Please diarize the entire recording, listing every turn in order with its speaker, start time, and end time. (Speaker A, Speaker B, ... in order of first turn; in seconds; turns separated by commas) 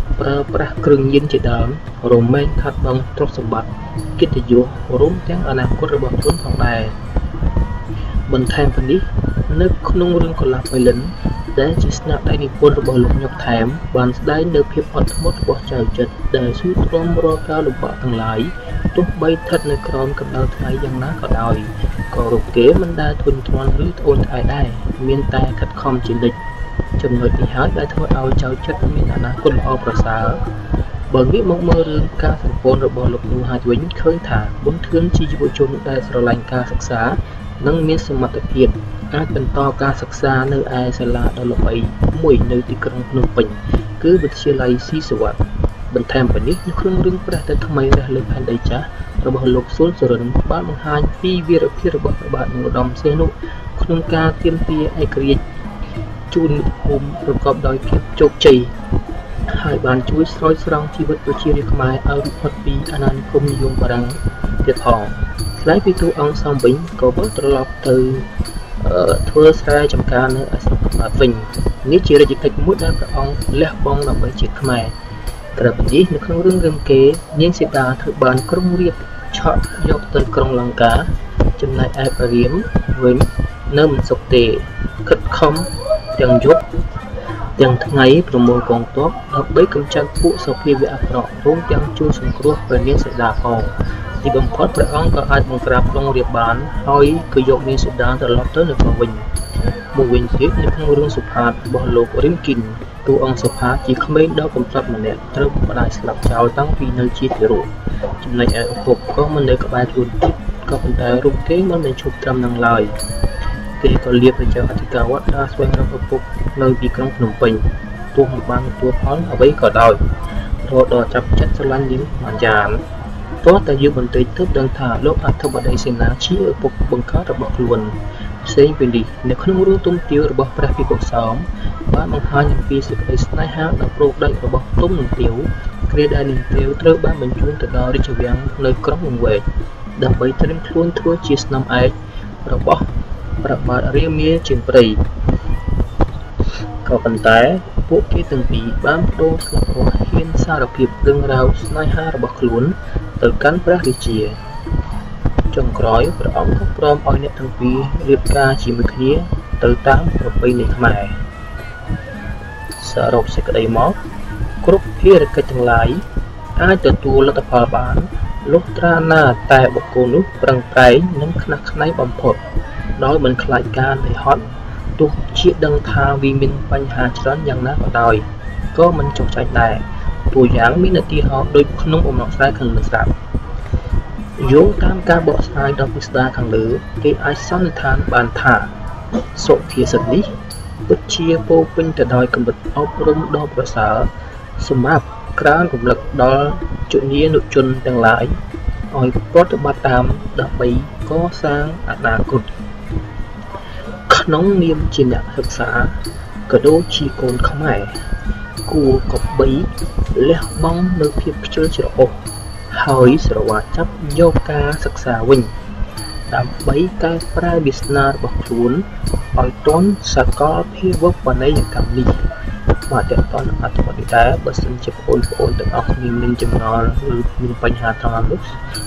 Speaker A: 0.2-7.0, Speaker A: 8.3-26.4, Speaker A: 27.0-30.4, Speaker A: 31.1-55.4, Speaker A: 56.3-58.7, Speaker A: 59.5-68.3, Speaker A: 68.8-74.9, Speaker A: 75.5-86.6, Speaker A: 87.6-99.3, Speaker A: 99.9-112.9, Speaker A: 113.8-120.0, Speaker A: 120.6-122.8, Speaker A: 123.4-139.4, Speaker A: 139.9-142.8, Speaker A: 143.4-145.0, Speaker A: 146.8-154.4, Speaker A: 155.5-161.2, Speaker A: 162.8-164.0, Speaker A: 164.6-166.0, Speaker A: 166.5-172.4, Speaker A: 172.9-183.1, Speaker A: 184.4-188.7, Speaker A: 189.3-190.3, Speaker A: 190.8-198.4, Speaker A: 198.9-202.5, Speaker A: 204.1-207.9, Speaker A: 208.6-212.2, Speaker A: 212.7-215.5, Speaker A: 216.3-222.2, Speaker A: 222.9-228.4